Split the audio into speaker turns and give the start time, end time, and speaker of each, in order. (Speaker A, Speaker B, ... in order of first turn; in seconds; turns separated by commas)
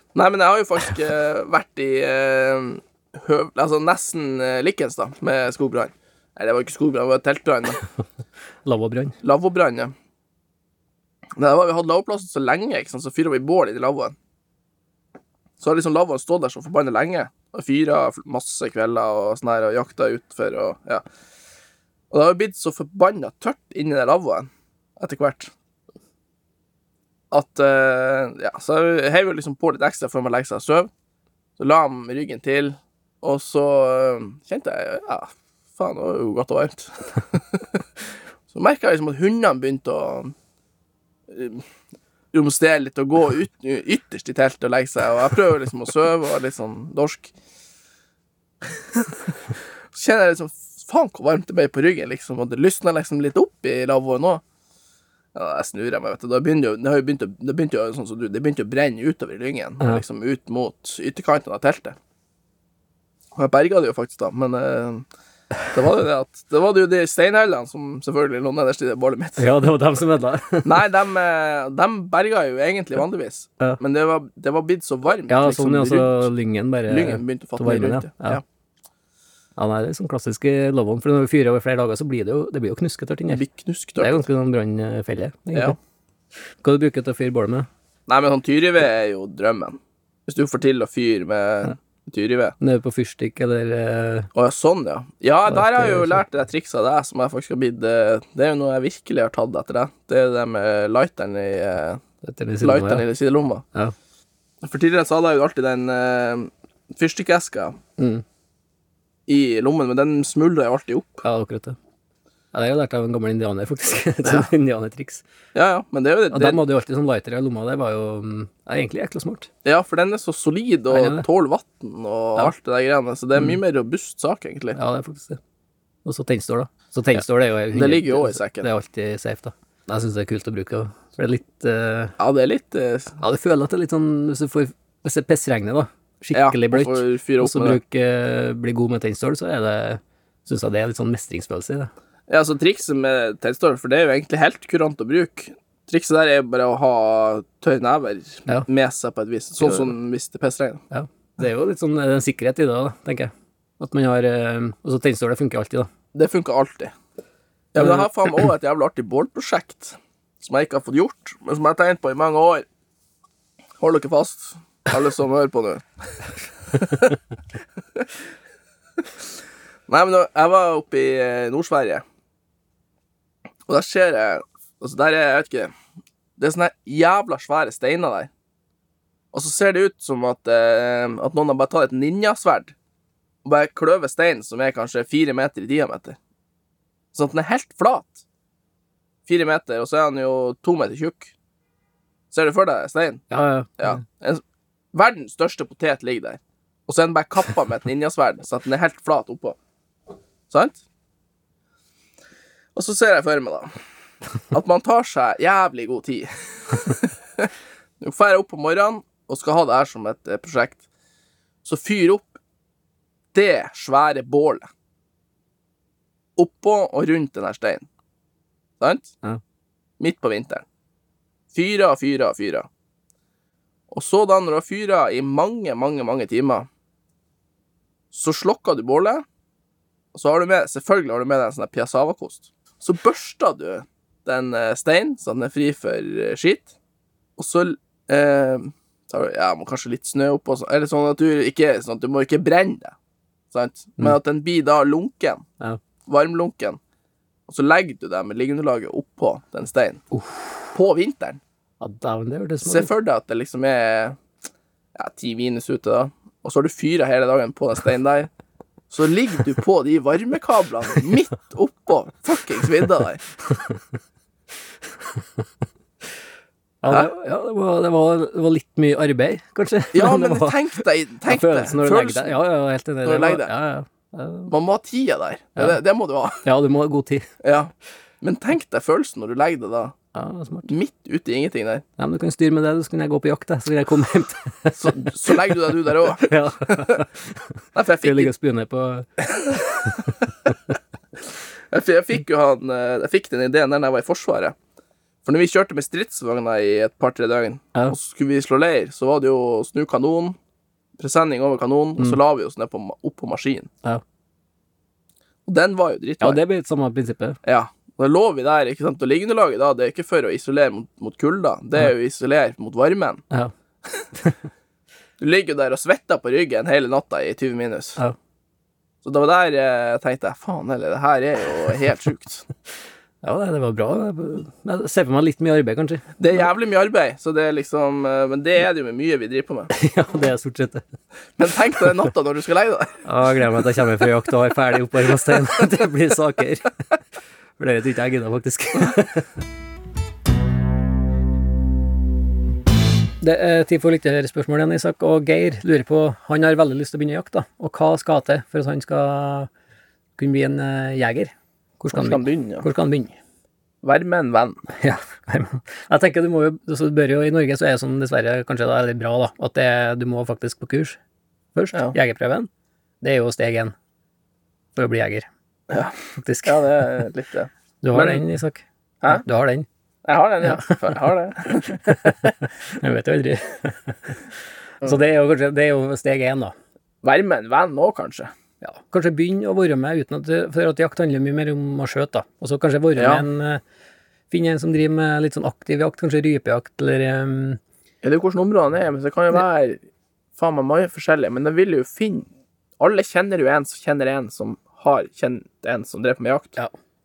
Speaker A: 0.1-7.8, Speaker B: 8.6-9.2, Speaker A: 9.2-9.9, Speaker A: 11.3-14.1, Speaker A: 15.6-21.0, Speaker A: 22.1-25.5, Speaker A: 27.3-30.9, Speaker A: 31.6-37.8, Speaker A: 38.5-40.3, Speaker A: 41.3-41.6, Speaker A: 42.3-47.3, Speaker A: 49.9-54.4, Speaker A: 55.3-62.0, Speaker A: 63.3-65.0, Speaker A: 65.7-69.5, Speaker B: 69.4-70.8, Speaker A: 70.6-76.3, Speaker B: 75.3-78.4, Speaker A: 76.9-78.4, Speaker B: 79.6-83.4, Speaker A: 83.3-84.2, Speaker B: 84.0-85.8, Speaker B: 86.6-87.7, Speaker A: 88.1-92.5, Speaker B: 92.6-94.3, Speaker A: 94.3-102.0, Speaker B: 95.5-96.2, Speaker B: 102.2-103.0, Speaker A: 102.6-103.6, Speaker A: 104.6-107.8, Speaker B: 108.0-108.2, Speaker A: 109.3-111.2, Speaker B: 111.2-111.8, Speaker B: 112.5-115.2, Speaker A: 115.5-116.6, Speaker B: 116.3-119.5, Speaker A: 119.6-124.8, Speaker B: 120.9-121.2, Speaker B: 124.7-125.4, Speaker B: 126.0-132.1, Speaker A: 127.7-128.7, Speaker A: 132.2-133.2, Speaker B: 133.2-141.9, Speaker A: 136.3-137.8, Speaker A: 142.3-150.8, Speaker B: 149.6-149.9, Speaker B: 150.9-155.9, Speaker A: 156.1-156.9, Speaker A: 157.7-162.7, Speaker B: 157.8-158.1, Speaker A: 163.8-167.2, Speaker A: 169.9-172.0, Speaker A: 173.7-175.7, Speaker A: 176.4-178.3, Speaker A: 179.3-182.7, Speaker A: 183.4-186.2, Speaker A: 187.1-188.2, Speaker A: 189.2-191.3, Speaker A: 192.3-193.2, Speaker B: 193.3-194.0, Speaker A: 193.8-194.4, Speaker A: 194.9-199.6, Speaker A: 200.5-200.8, Speaker A: 202.7-203.8, Speaker A: 204.5-210.8, Speaker A: 211.6-212.3, Speaker A: 213.3-214.7, Speaker A: 216.3-217.9, Speaker A: 218.8-219.1, Speaker A: 220.0-220.6, Speaker A: 221.5-222.7, Speaker A: 223.9-226.7, Speaker A: 228.1-229.2, Speaker A: 230.1-236.7, Speaker A: 237.4-242.9, Speaker A: 243.5-245.4, Speaker A: 246.1-246.8, Speaker A: 247.5-250.0, Speaker B: 250.1-250.5, Speaker A: 250.7-251.4, Speaker B: 251.8-252.9, Speaker A: 252.6-254.2, Speaker A: 254.9-258.3, Speaker A: 258.9-263.2, Speaker B: 266.8-274.5, Speaker A: 269.9-272.4, Speaker A: 273.0-273.5, Speaker A: 274.5-276.4, Speaker B: 276.4-277.3, Speaker A: 277.4-279.9, Speaker B: 280.1-280.7, Speaker A: 280.6-281.8, Speaker B: 282.0-285.1, Speaker A: 284.7-287.0, Speaker B: 286.2-287.1, Speaker A: 287.7-288.3, Speaker B: 288.0-289.1, Speaker A: 289.2-289.9, Speaker A: 291.7-294.5, Speaker A: 295.2-300.4, Speaker A: 301.0-303.7, Speaker A: 305.4-306.4, Speaker B: 306.2-307.4, Speaker A: 307.4-313.2, Speaker A: 315.2-318.0, Speaker A: 319.0-322.4, Speaker B: 323.2-326.1, Speaker A: 326.2-329.7, Speaker B: 329.7-330.8, Speaker A: 331.4-333.0, Speaker B: 333.0-336.7, Speaker B: 337.6-339.3, Speaker B: 343.2-349.5, Speaker B: 350.2-353.1, Speaker A: 351.9-352.6, Speaker A: 353.8-354.6, Speaker B: 354.8-361.0, Speaker B: 361.5-362.5, Speaker B: 363.0-363.7, Speaker B: 364.8-365.3, Speaker A: 365.7-368.2, Speaker B: 366.1-367.0, Speaker B: 367.8-369.7, Speaker A: 370.0-372.2, Speaker B: 370.5-370.9, Speaker B: 371.7-374.2, Speaker B: 374.8-376.5, Speaker A: 377.0-378.3, Speaker B: 378.6-383.6, Speaker A: 382.9-383.2, Speaker B: 384.3-387.6, Speaker A: 388.0-389.8, Speaker A: 390.4-392.3, Speaker A: 392.8-396.6